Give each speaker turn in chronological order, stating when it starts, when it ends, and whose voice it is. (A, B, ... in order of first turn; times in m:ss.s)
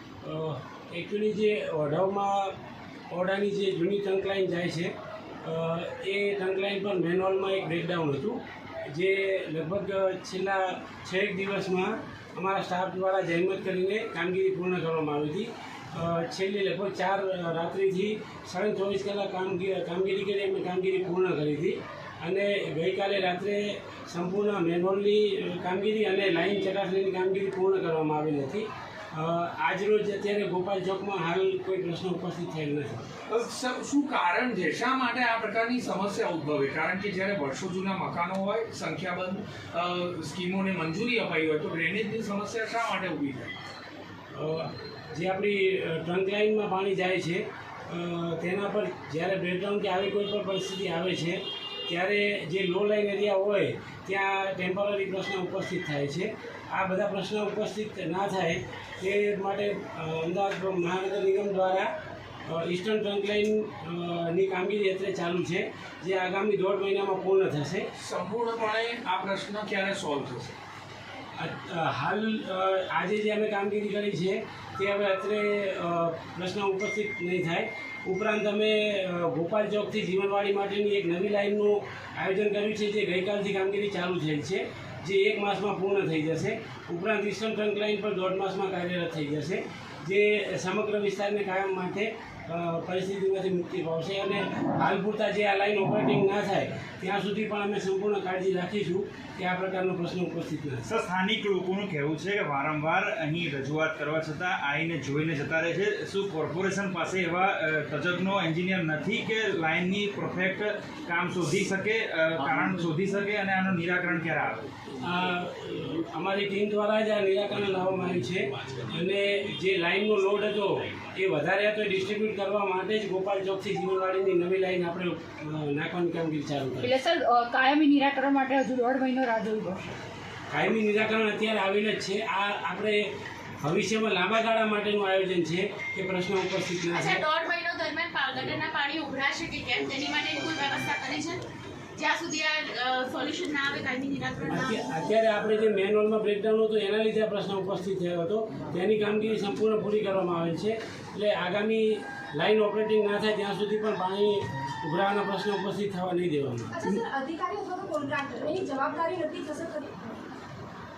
0:00.2-0:02.5 A
0:03.1-0:04.9 A
0:05.4-0:08.4 A
0:08.9-0:33.0 A
0:33.3-0:43.5 B
0:44.3-1:01.9 A
1:02.5-1:07.9 A
1:08.0-1:10.6 B
1:11.4-1:40.9 A
1:40.9-1:54.6 C
1:55.0-2:06.9 A
2:06.8-2:09.9 D
2:10.5-2:17.2 A
2:16.9-2:21.4 E
2:22.0-2:24.8 E
2:24.5-2:37.0 A
2:36.8-2:40.2 F